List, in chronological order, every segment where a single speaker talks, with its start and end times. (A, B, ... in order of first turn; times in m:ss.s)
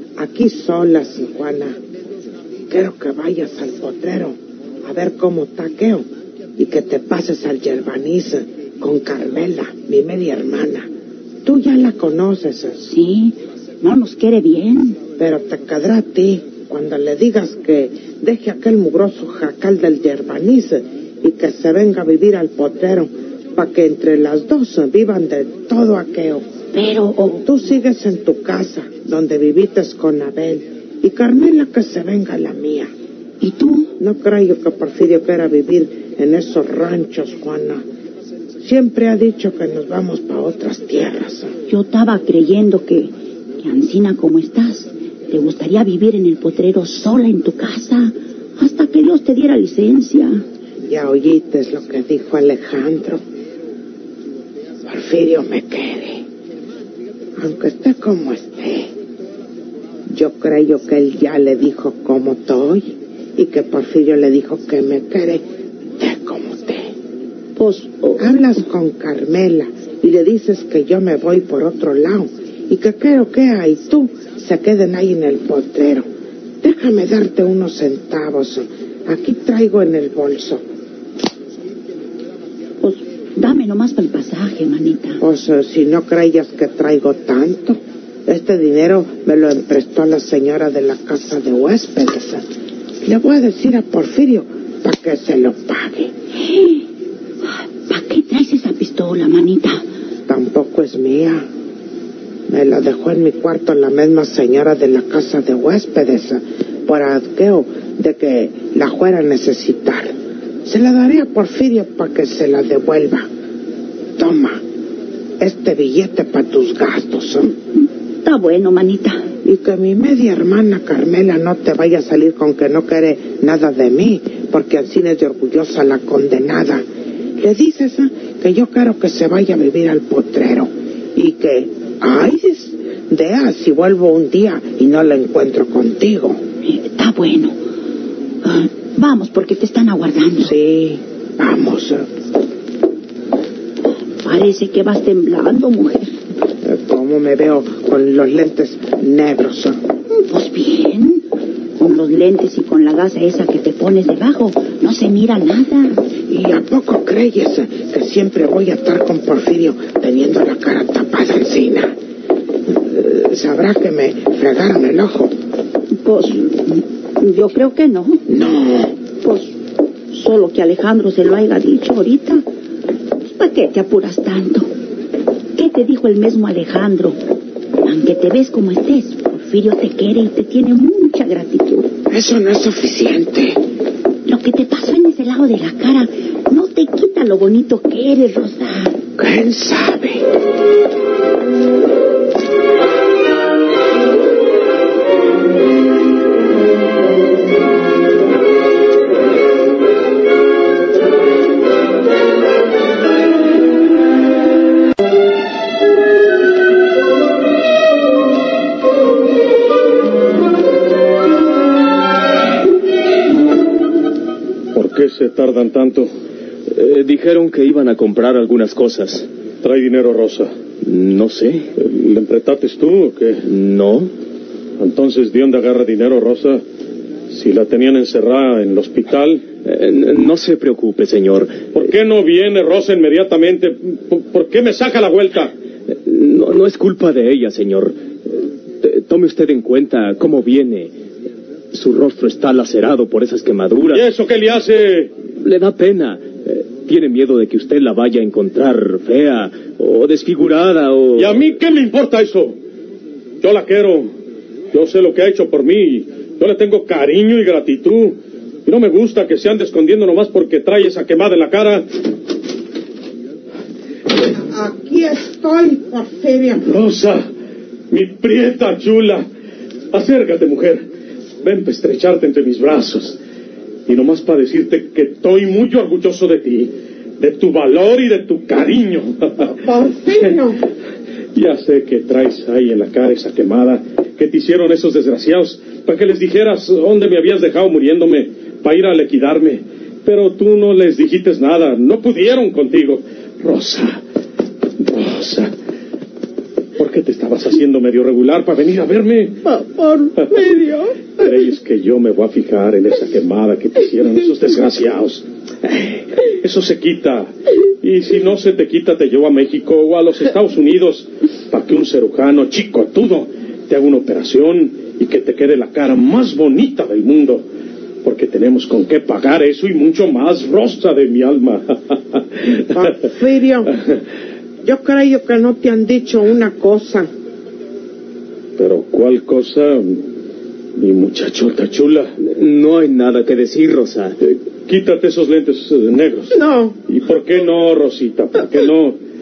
0:00.2-0:01.8 A
0:02.7-0:06.1 A
0:06.6-0:10.9 A
0:11.4-0:12.9 A
0:12.9-0:15.0 B
0:15.2-0:26.5 A
0:26.7-0:27.4 B
0:27.4-0:32.9 A
0:33.4-0:33.9 B
0:34.0-0:37.8 A
0:38.6-0:41.6 A
0:41.7-0:50.4 B
0:50.8-0:53.2 A
0:54.8-0:56.2 A
0:57.4-0:58.9 A
1:00.1-1:05.4 A
1:06.0-1:06.9 A
1:07.6-1:08.2 B
1:08.2-1:16.1 A
1:16.6-1:20.6 A
1:22.8-1:25.2 B
1:25.2-1:32.4 A
1:33.0-1:36.1 A
1:36.4-1:36.9 B
1:37.4-1:39.8 B
1:40.3-1:41.5 A
1:42.5-1:50.2 A
1:50.7-1:53.3 A
1:54.2-1:54.6 A
1:55.4-1:57.5 A
1:58.2-1:59.2 B
1:59.4-2:06.8 A
2:07.4-2:16.4 A
2:16.6-2:17.6 B
2:18.4-2:20.5 B
2:20.4-2:22.1 A
2:24.2-2:26.1 B
2:26.6-2:29.8 A
2:30.2-2:31.2 B
2:31.8-2:36.0 B
2:36.3-2:41.9 A
2:42.8-2:45.3 A
2:46.0-2:48.2 B
2:48.3-2:49.0 A
2:49.2-2:49.6 B
2:50.1-2:52.4 B
2:53.3-2:54.7 B
2:55.6-2:57.2 B
2:57.8-3:01.9 B
3:02.1-3:03.6 A
3:04.3-3:09.0 B
3:09.2-3:10.2 A
3:34.7-3:36.1 C
3:36.7-3:39.3 D
3:39.6-3:40.5 C
3:40.8-3:41.7 D
3:41.8-3:43.4 C
3:43.4-3:44.1 D
3:44.8-3:46.6 C
3:47.3-3:49.4 C
3:49.6-3:51.7 D
3:51.7-3:55.5 C
3:56.1-3:58.0 D
3:58.8-4:00.9 D
4:01.7-4:04.0 D
4:03.9-4:05.1 C
4:05.4-4:11.4 D
4:11.2-4:12.6 C
4:13.4-4:14.1 C
4:14.7-4:21.9 C
4:24.5-4:26.6 A
4:26.6-4:27.3 C
4:27.9-4:29.2 C
4:29.9-4:30.8 C
4:31.4-4:33.2 C
4:33.9-4:39.6 C
4:39.6-4:40.6 A
4:41.4-4:54.0 C
4:54.8-4:55.5 C
4:56.8-4:59.6 C
4:59.6-5:00.9 A
5:00.1-5:00.6 C
5:01.1-5:17.4 C
5:18.0-5:22.4 C
5:22.7-5:23.7 A
5:24.6-5:27.1 A
5:28.6-5:30.0 C
5:30.8-5:32.1 C
5:32.2-5:34.2 D
5:34.7-5:36.4 C
5:36.3-5:36.8 A
5:36.9-5:39.0 C